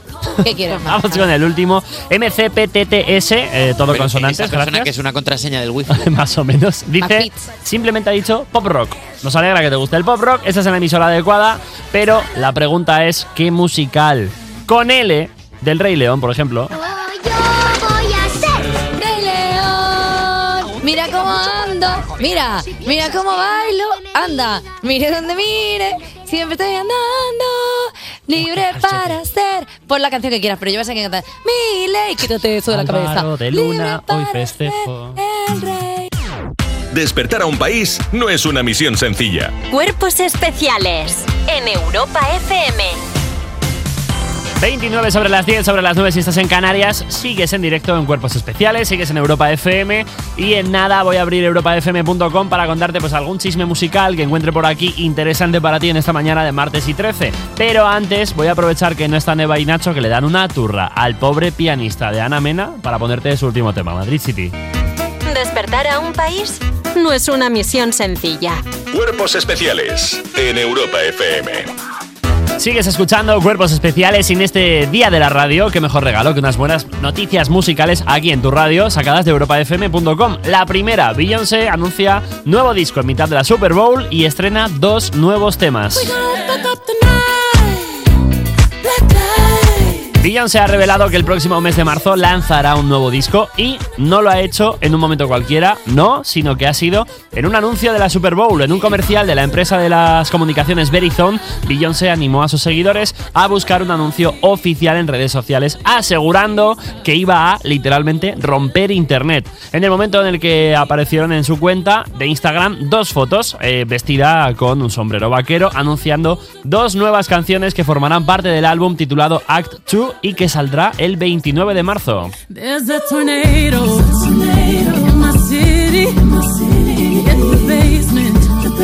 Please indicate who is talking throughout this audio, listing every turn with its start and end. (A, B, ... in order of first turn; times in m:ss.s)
0:00.4-0:01.3 A
0:00.8-0:04.9 B
0:03.9-0:06.1 C
0:05.9-0:16.7 B
0:07.0-0:07.5 A
0:18.9-0:36.1 A
0:28.4-0:29.2 B
0:32.7-0:35.2 B
0:36.9-0:39.6 D
0:39.7-0:43.0 E
0:44.6-1:04.5 B
1:05.2-1:08.6 E
1:08.9-1:11.7 D
1:12.6-1:26.2 B
1:30.2-2:02.3 B
2:02.8-2:06.1 F
2:07.7-2:08.5 F